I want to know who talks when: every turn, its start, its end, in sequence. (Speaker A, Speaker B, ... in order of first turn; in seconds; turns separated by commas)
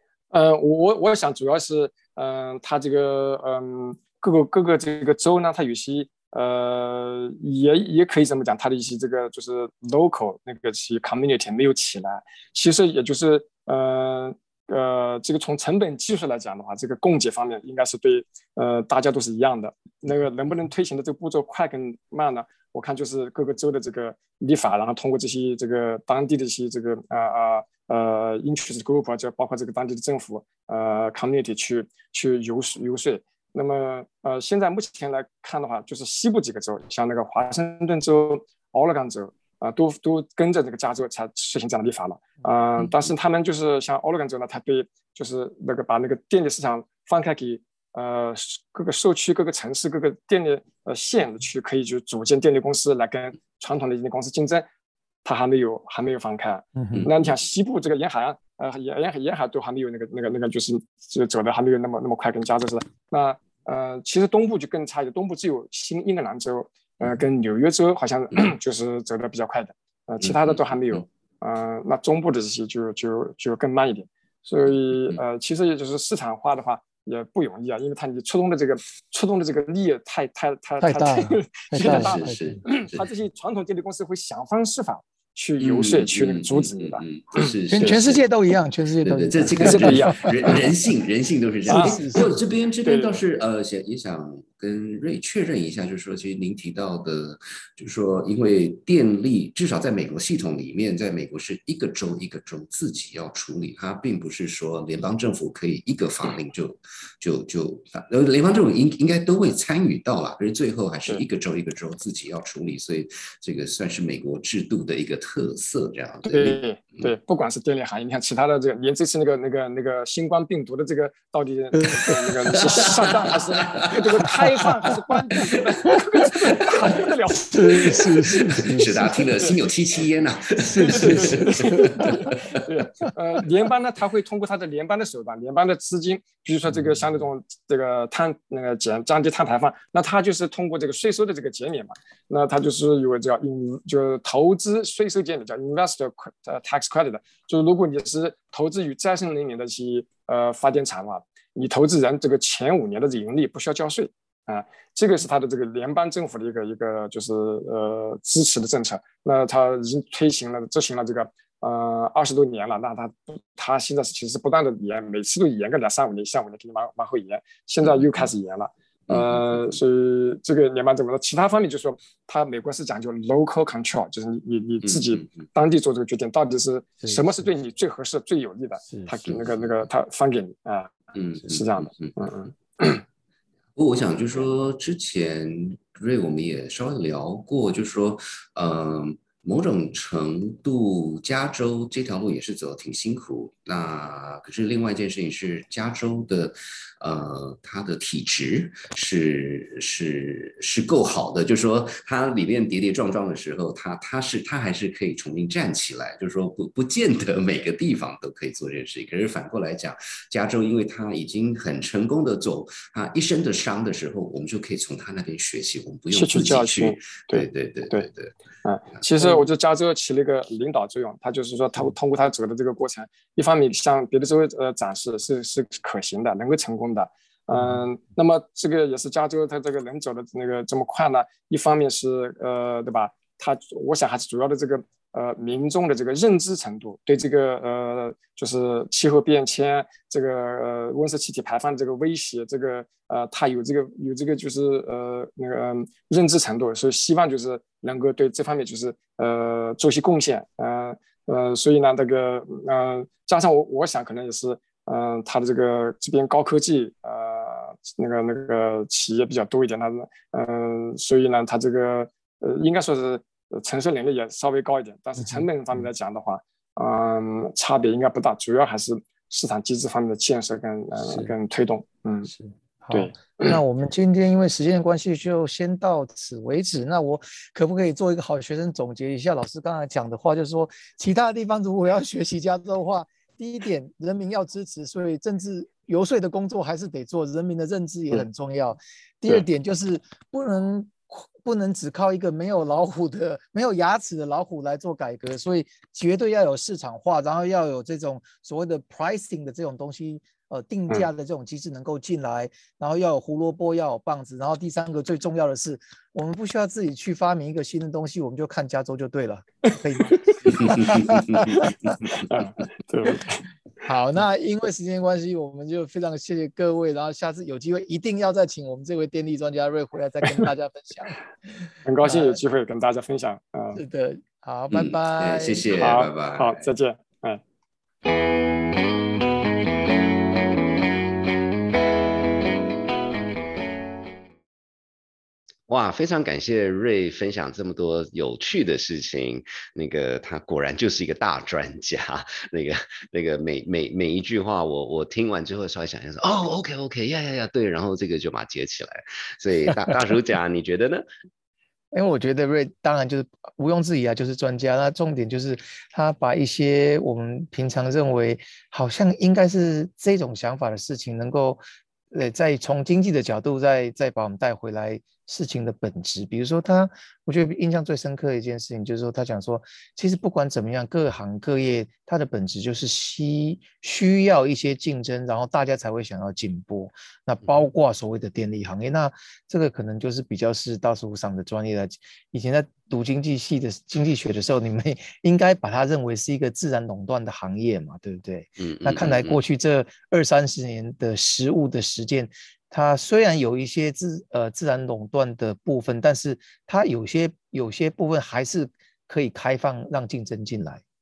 Speaker A: 0.3-54.6, Speaker A: 55.2-87.5, Speaker B: 56.7-57.0, Speaker C: 70.2-70.6, Speaker C: 74.9-75.2, Speaker B: 80.8-82.6, Speaker C: 81.7-83.1, Speaker C: 85.6-88.2, Speaker B: 87.7-90.6, Speaker C: 89.0-117.1, Speaker A: 89.6-90.5, Speaker B: 91.7-92.3, Speaker A: 91.7-92.1, Speaker A: 92.8-93.2, Speaker A: 116.3-128.7, Speaker B: 121.8-122.3, Speaker C: 122.7-124.3, Speaker B: 127.5-129.2, Speaker C: 128.6-132.4, Speaker B: 130.6-132.3, Speaker A: 130.8-183.0, Speaker C: 167.8-168.2, Speaker C: 169.1-169.8, Speaker C: 174.8-175.4, Speaker C: 179.2-179.8, Speaker C: 181.1-182.2, Speaker C: 183.8-218.3, Speaker A: 216.1-218.1, Speaker A: 218.6-272.3, Speaker B: 265.2-265.4, Speaker B: 271.0-271.3, Speaker B: 272.3-312.0, Speaker A: 272.9-273.6, Speaker A: 310.5-310.9, Speaker C: 310.6-311.1, Speaker A: 312.2-313.4, Speaker B: 313.8-322.4, Speaker A: 321.8-323.8, Speaker B: 323.7-325.6, Speaker C: 324.7-326.6, Speaker A: 325.8-327.4, Speaker C: 335.7-351.0, Speaker B: 351.9-400.8, Speaker C: 388.6-389.4